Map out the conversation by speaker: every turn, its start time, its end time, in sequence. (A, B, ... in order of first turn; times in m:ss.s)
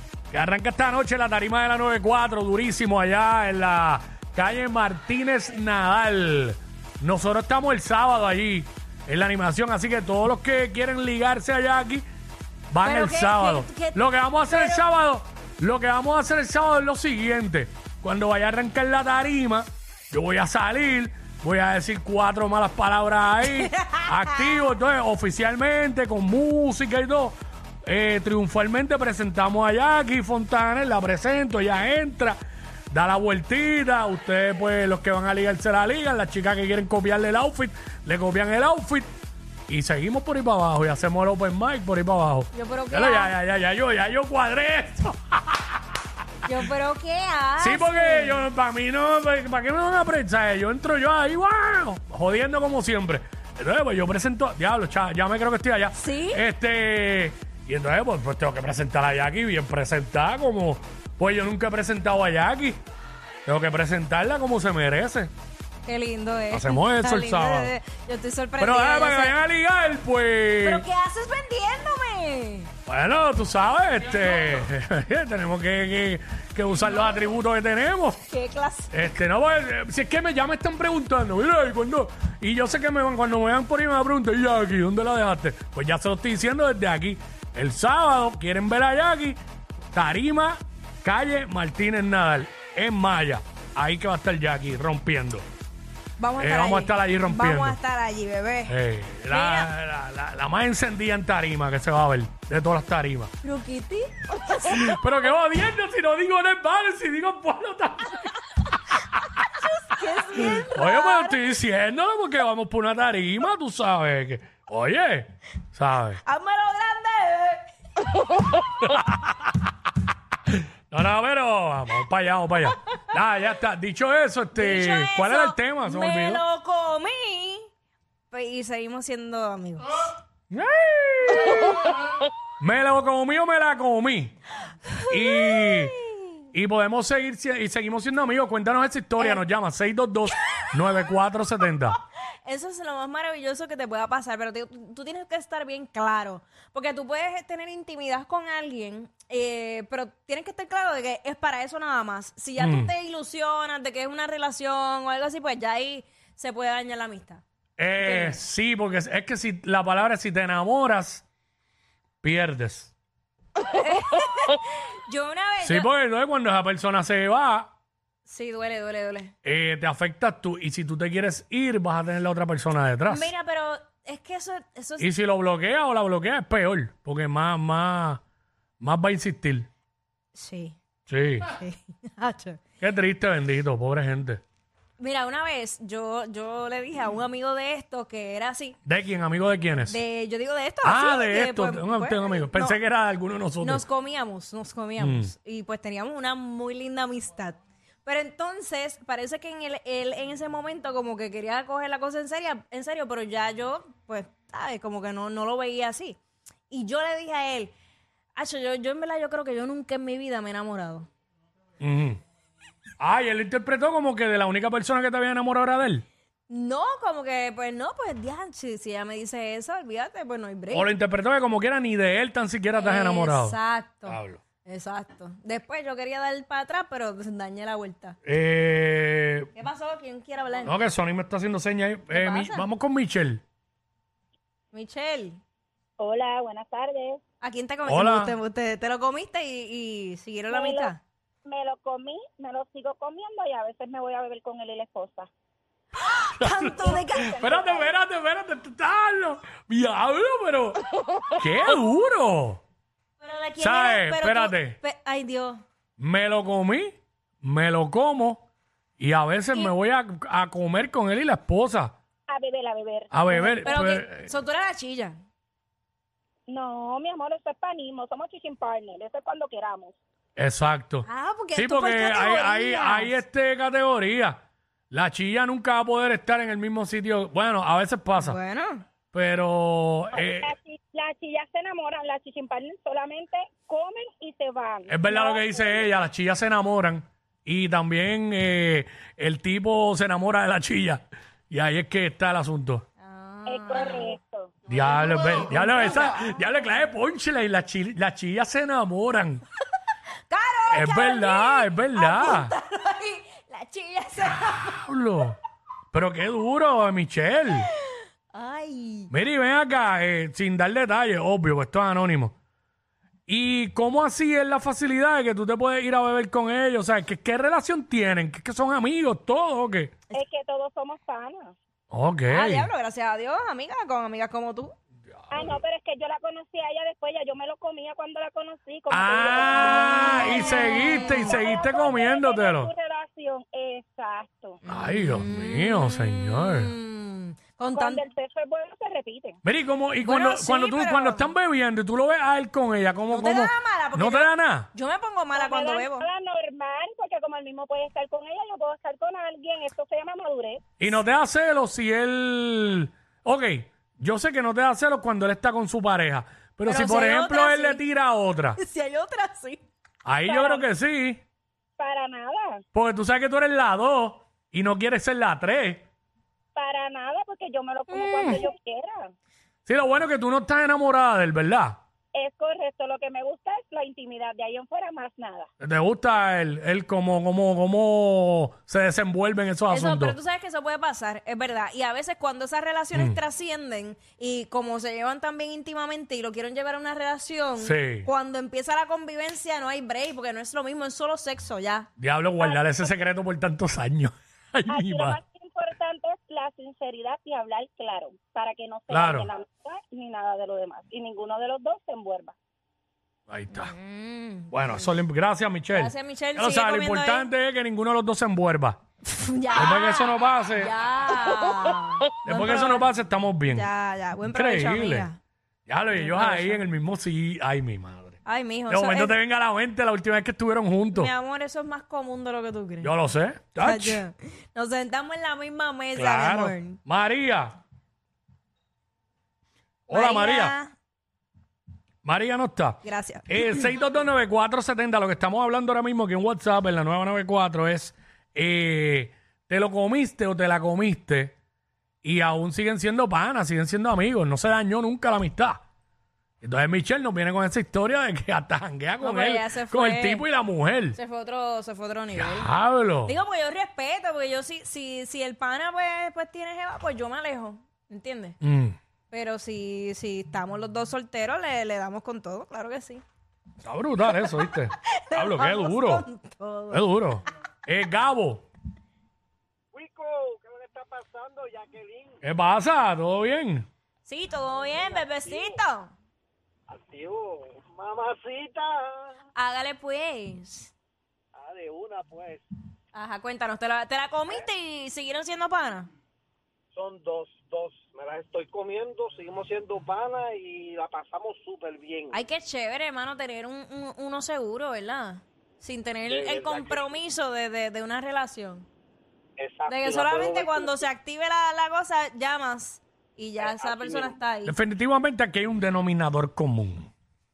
0:00.3-0:12.1 A
0:12.7-0:32.4 A
0:12.8-0:14.8 B
0:23.4-0:24.7 B
0:32.9-0:39.1 A
0:39.7-0:45.8 A
0:42.5-0:43.3 B
0:46.4-0:48.5 B
0:47.6-1:02.8 A
0:55.9-0:56.4 B
1:03.5-1:05.3 A
1:05.8-1:09.4 B
1:06.5-1:07.7 A
1:08.6-1:10.8 A
1:10.6-1:12.7 B
1:12.9-1:18.2 A
1:16.8-1:17.2 B
1:18.2-1:18.9 B
1:18.9-1:29.4 A
1:29.9-1:35.5 A
1:36.2-1:38.7 B
1:36.4-1:37.8 A
1:38.7-1:43.3 A
1:39.3-1:39.7 B
1:43.4-1:45.1 B
1:44.6-1:48.2 A
1:49.5-1:51.6 B
1:50.5-1:56.2 A
1:56.2-1:58.5 B
1:58.8-1:59.3 A
2:00.5-2:06.4 A
2:04.5-2:07.7 B
2:08.3-2:10.0 B
2:10.5-2:11.8 A
2:12.6-2:14.3 A
2:14.9-2:16.1 B
2:15.1-2:16.0 A
2:16.5-2:22.0 A
2:22.4-2:37.4 B
2:32.6-2:32.9 A
2:37.8-2:41.2 A
2:38.0-2:38.4 B
2:42.2-2:42.9 A
2:43.6-2:45.9 B
2:45.6-2:47.7 A
2:48.3-2:49.3 B
2:49.4-2:53.3 A
2:53.1-2:55.1 B
2:55.0-2:58.2 A
2:58.8-2:59.7 A
3:00.4-3:00.8 B
3:01.1-3:01.5 A
3:01.5-3:02.6 B
3:02.8-3:04.4 A
3:05.0-3:08.8 B
3:08.8-3:10.0 A
3:09.9-3:12.8 B
3:10.8-3:13.8 A
3:13.6-3:26.2 B
3:15.0-3:15.3 A
3:26.7-3:27.7 B
3:28.4-3:31.1 B
3:31.8-3:32.2 A
3:33.0-3:36.0 A
3:36.5-3:40.9 B
3:40.7-3:44.4 A
3:42.8-3:48.2 B
3:48.2-3:49.5 A
3:49.6-3:50.8 B
3:50.6-3:53.4 A
3:52.1-3:52.7 B
3:54.7-3:55.4 B
3:56.0-3:57.2 C
3:57.4-4:01.0 B
3:57.9-3:58.3 A
4:00.5-4:00.9 C
4:01.4-4:05.3 C
4:06.0-4:07.5 B
4:06.4-4:10.8 A
4:07.2-4:07.9 C
4:11.4-4:12.6 A
4:13.2-4:15.6 B
4:13.6-4:14.8 A
4:16.0-4:18.5 A
4:19.0-4:21.9 A
4:22.3-4:23.8 C
4:23.1-4:24.3 A
4:23.6-4:25.2 B
4:26.5-4:30.0 C
4:30.4-4:34.4 A
4:31.0-4:33.2 B
4:34.9-4:38.4 A
4:38.2-4:38.8 B
4:39.1-4:40.5 A
4:40.1-4:45.9 C
4:44.9-4:52.8 A
4:53.0-4:54.1 B
4:53.5-4:54.5 C
4:54.7-4:59.4 A
4:55.1-4:56.4 B
5:00.3-5:04.8 B
5:00.7-5:02.5 A
5:04.6-5:05.4 A
5:05.9-5:07.7 A
5:07.7-5:09.1 B
5:09.1-5:12.4 A
5:13.3-5:19.9 A
5:20.2-5:21.6 C
5:21.9-5:22.7 A
5:22.3-5:24.8 B
5:25.3-5:34.6 C
5:28.9-5:32.7 A
5:29.4-5:31.4 B
5:34.6-5:38.0 B
5:34.7-5:36.7 A
5:37.7-5:39.4 C
5:39.4-5:44.7 A
5:40.0-5:41.3 B
5:43.1-5:46.1 B
5:45.3-5:50.6 C
5:50.8-5:58.6 A
5:56.7-5:57.8 B
5:58.6-5:59.7 B
6:00.0-6:01.2 A
6:00.2-6:00.7 C
6:01.8-6:02.6 C
6:02.7-6:05.9 A
6:06.6-6:09.1 C
6:07.9-6:08.4 B
6:09.7-6:11.8 A
6:12.1-6:15.5 C
6:15.6-6:20.2 A
6:19.7-6:31.9 B
6:22.9-6:23.2 A
6:27.6-6:28.1 A
6:32.0-6:35.2 A
6:32.4-6:32.9 C
6:34.7-6:42.4 C
6:38.9-6:39.3 A
6:43.3-6:43.7 A
6:43.5-6:44.9 B
6:44.5-6:48.8 A
6:45.7-6:47.3 B
6:49.1-6:52.9 B
6:49.6-6:50.7 A
6:52.2-6:53.7 A
6:53.4-6:55.2 B
6:54.3-6:55.1 A
6:55.7-6:58.2 A
6:55.9-6:56.6 B
6:58.2-6:59.2 B
6:58.7-7:01.1 A
7:00.9-7:02.9 B
7:02.8-7:04.0 A
7:03.6-7:06.8 B
7:06.0-7:07.6 A
7:09.9-7:10.6 A
7:09.9-7:10.7 B
7:12.0-7:21.4 A
7:12.8-7:13.6 B
7:22.0-7:25.6 A
7:26.4-7:31.0 A
7:29.0-7:30.2 B
7:30.9-7:32.5 B
7:32.1-7:33.2 A
7:33.1-7:38.4 B
7:38.4-7:38.8 A
7:39.1-7:43.0 B
7:43.6-7:46.0 A
7:44.2-7:46.9 B
7:46.7-7:48.5 A
7:49.7-7:52.2 D
7:52.2-7:53.7 A
7:54.1-7:55.9 B
7:56.7-7:59.2 D
7:59.4-8:00.7 B
8:01.3-8:02.5 D
8:02.9-8:05.9 B
8:06.7-8:12.2 D
8:12.1-8:18.7 B
8:16.1-8:16.8 D
8:19.4-8:20.8 D
8:19.7-8:24.6 B
8:23.4-8:24.1 D
8:24.4-8:26.9 A